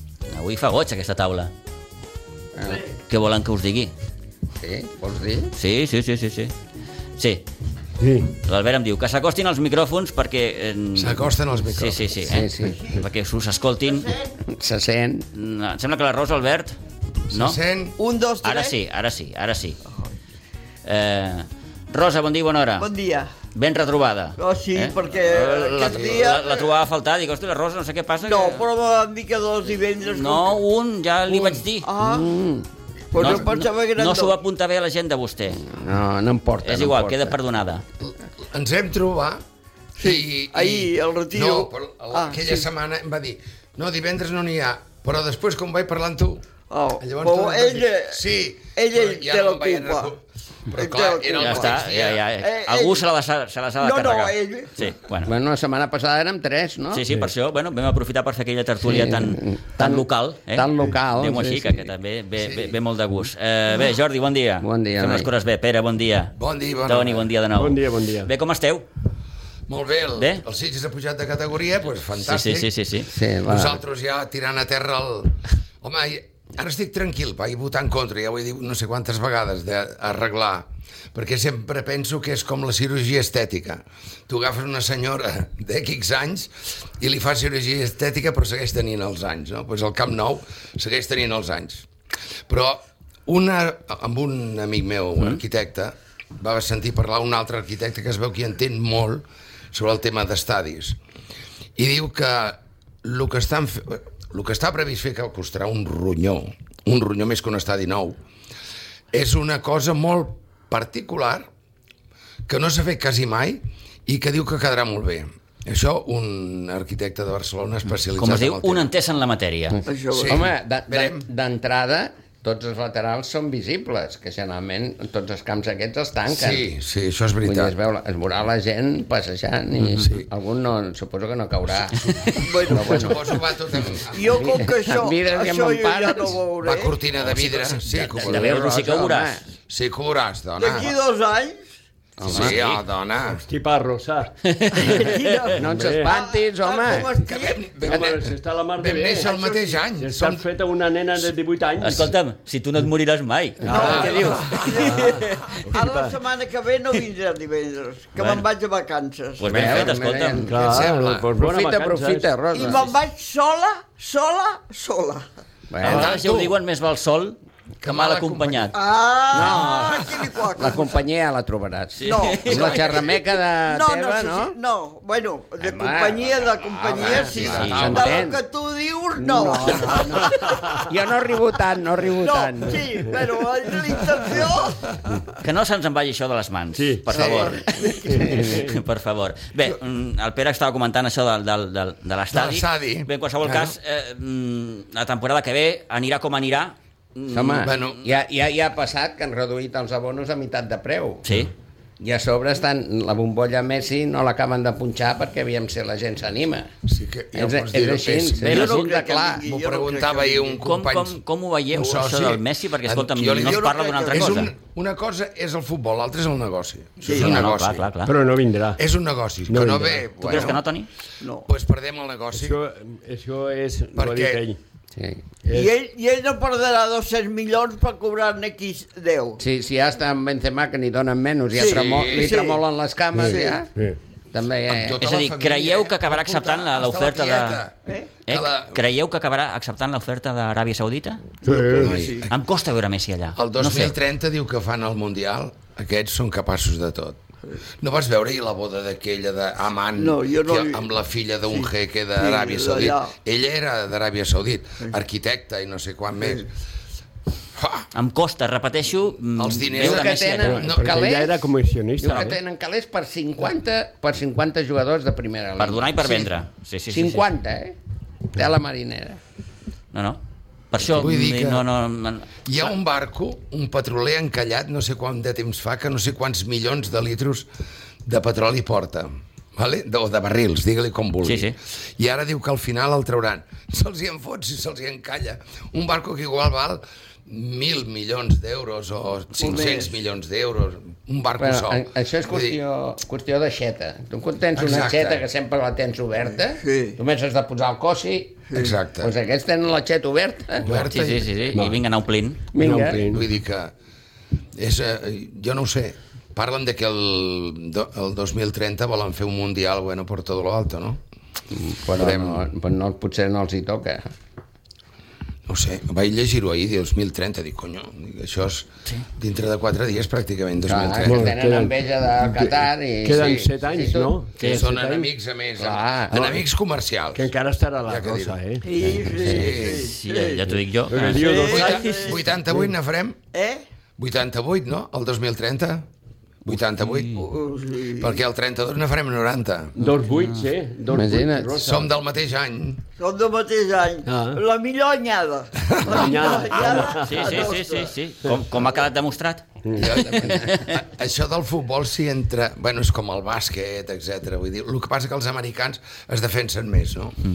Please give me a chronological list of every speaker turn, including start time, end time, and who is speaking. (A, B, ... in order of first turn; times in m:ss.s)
0:00.3-0:01.5 A
0:02.6-0:02.9 B
0:03.1-0:03.9 A
0:04.6-0:05.5 C
0:05.6-0:06.5 A
0:07.2-0:07.4 A
0:08.0-0:08.4 D
0:08.4-0:14.1 A
0:11.0-0:12.2 E
0:12.3-0:12.8 C
0:12.6-0:13.1 B
0:13.8-0:14.4 B
0:14.4-0:15.3 C
0:15.3-0:16.8 A
0:17.3-0:17.6 A
0:17.3-0:18.0 E
0:18.0-0:18.8 B
0:18.4-0:19.8 A
0:20.8-0:22.9 A
0:22.8-0:23.3 B
0:23.5-0:28.7 A
0:24.4-0:26.7 B
0:25.8-0:26.3 E
0:28.2-0:30.6 B
0:30.0-0:31.9 A
0:31.3-0:31.6 E
0:31.8-0:32.3 B
0:32.0-0:32.7 C
0:33.1-0:34.4 B
0:33.2-0:35.6 A
0:35.6-0:37.4 C
0:36.6-0:37.8 A
0:38.0-0:39.4 E
0:40.0-0:42.6 B
0:40.0-0:46.4 E
0:46.7-0:48.2 B
0:47.0-0:52.2 E
0:48.8-0:50.1 B
0:50.7-0:53.0 B
0:51.4-0:55.3 A
0:53.8-0:54.8 B
0:55.2-0:57.0 C
0:56.9-1:08.9 A
0:58.8-1:01.9 C
1:02.4-1:02.8 E
1:04.6-1:05.3 C
1:06.4-1:07.3 E
1:07.6-1:08.3 D
1:09.7-1:12.7 E
1:10.2-1:10.4 A
1:12.2-1:13.1 A
1:13.1-1:13.8 C
1:13.5-1:31.9 E
1:32.5-1:41.0 E
1:41.8-1:48.2 E
1:49.1-1:51.5 E
1:52.5-1:58.9 E
1:58.2-1:59.8 A
1:59.9-2:00.4 B
2:00.1-2:01.2 E
2:00.2-2:06.6 C
2:06.3-2:07.7 E
2:07.4-2:12.1 C
2:10.0-2:10.3 E
2:11.9-2:14.6 E
2:12.1-2:12.4 A
2:12.4-2:13.4 B
2:12.7-2:13.2 C
2:13.8-2:16.4 C
2:14.1-2:17.0 B
2:16.6-2:18.6 E
2:17.3-2:19.4 A
2:17.9-2:19.4 C
2:19.7-2:20.9 E
2:20.6-2:21.6 B
2:22.2-2:22.6 C
2:22.3-2:22.8 A
2:22.3-2:23.4 E
2:23.5-2:24.3 D
2:24.5-2:25.5 A
2:24.7-2:27.7 B
2:25.6-2:26.1 D
2:25.6-2:27.1 C
2:27.2-2:30.5 E
2:27.8-2:29.3 D
2:29.1-2:29.8 B
2:30.0-2:32.1 D
2:31.8-2:35.5 A
2:33.7-2:34.0 D
2:33.7-2:39.9 B
2:33.7-2:35.1 E
2:33.7-2:34.5 C
2:35.6-2:36.2 D
2:38.2-2:38.5 A
2:39.4-2:40.5 A
2:39.5-2:40.6 C
2:40.4-2:42.4 D
2:40.5-2:41.3 E
2:41.4-2:42.8 C
2:42.5-2:45.3 B
2:45.7-2:46.2 C
2:45.8-2:46.6 E
2:45.8-2:48.7 A
2:47.8-2:48.8 E
2:48.7-2:50.9 B
2:49.3-2:54.6 C
2:49.4-2:50.3 E
2:52.0-2:52.8 A
2:52.1-2:52.7 B
2:52.4-2:53.2 E
2:53.6-3:00.8 B
2:55.6-2:58.4 C
2:56.9-2:58.3 E
2:57.5-2:58.2 A
2:59.2-3:03.1 C
3:02.1-3:05.2 B
3:05.4-3:17.9 A
3:06.8-3:07.3 D
3:07.1-3:08.3 B
3:07.1-3:08.6 C
3:08.0-3:08.8 D
3:12.3-3:13.8 E
3:17.3-3:21.3 C
3:17.6-3:18.0 E
3:21.2-3:21.5 A
3:22.0-3:26.7 C
3:26.9-3:28.6 E
3:27.3-3:29.4 C
3:28.4-3:28.8 A
3:28.4-3:30.6 B
3:29.5-3:31.2 E
3:30.6-3:34.5 A
3:31.7-3:37.9 E
3:33.4-3:34.4 B
3:37.0-3:37.4 B
3:37.0-3:38.1 A
3:38.0-3:38.8 D
3:38.8-3:40.6 E
3:39.5-3:40.1 D
3:40.2-3:40.9 A
3:41.2-3:41.5 B
3:41.4-3:42.6 E
3:42.4-3:44.6 D
3:44.0-3:44.4 E
3:45.0-3:45.2 C
3:45.4-3:45.7 D
3:45.5-3:49.4 B
3:49.4-3:53.7 C
3:51.5-3:52.6 B
3:51.6-3:52.4 E
3:53.2-3:53.6 B
3:53.2-3:54.0 D
3:54.3-3:55.0 C
3:54.7-3:58.8 E
3:55.0-3:57.6 A
3:58.3-4:01.2 A
4:01.4-4:02.0 D
4:01.4-4:02.3 B
4:01.8-4:02.4 E
4:02.3-4:04.0 A
4:03.4-4:07.2 E
4:07.8-4:16.5 E
4:10.0-4:10.8 B
4:11.5-4:13.1 B
4:17.5-4:17.9 E
4:17.9-4:20.6 A
4:19.4-4:20.9 E
4:19.8-4:21.4 C
4:20.4-4:22.4 D
4:22.0-4:26.3 C
4:25.6-4:27.3 A
4:26.9-4:27.8 C
4:28.3-4:29.2 C
4:29.9-4:30.2 A
4:30.7-4:32.5 A
4:30.8-4:31.6 E
4:32.4-4:37.5 E
4:38.0-4:52.6 E
4:41.2-4:41.6 A
4:49.4-4:49.9 B
4:51.4-4:58.4 C
4:54.6-4:55.2 E
4:56.6-4:57.0 B
4:58.5-4:59.1 E
4:59.0-5:00.7 C
5:00.6-5:01.3 E
5:00.7-5:02.5 A
5:01.5-5:01.8 D
5:02.5-5:03.1 C
5:02.6-5:03.2 D
5:03.1-5:03.7 E
5:04.6-5:11.0 E
5:11.5-5:14.1 C
5:12.0-5:12.5 E
5:15.5-5:21.3 E
5:20.7-5:24.2 C
5:21.0-5:25.1 D
5:23.1-5:23.4 E
5:24.4-5:27.3 E
5:25.6-5:26.4 C
5:27.1-5:29.3 D
5:27.9-5:28.4 E
5:28.6-5:32.3 B
5:29.2-5:29.9 E
5:29.6-5:32.0 A
5:30.9-5:32.7 D
5:31.4-5:33.2 E
5:33.3-5:33.6 B
5:34.0-5:35.9 E
5:36.4-5:37.2 E
5:37.0-5:38.2 B
5:38.0-5:39.8 E
5:39.8-5:41.9 D
5:39.9-5:40.4 A
5:40.9-5:41.6 C
5:41.6-5:42.8 E
5:43.0-5:47.9 B
5:44.1-5:44.4 D
5:45.6-5:46.3 E
5:45.9-5:47.5 D
5:46.8-5:50.8 A
5:49.8-5:57.2 E
5:49.8-5:50.6 C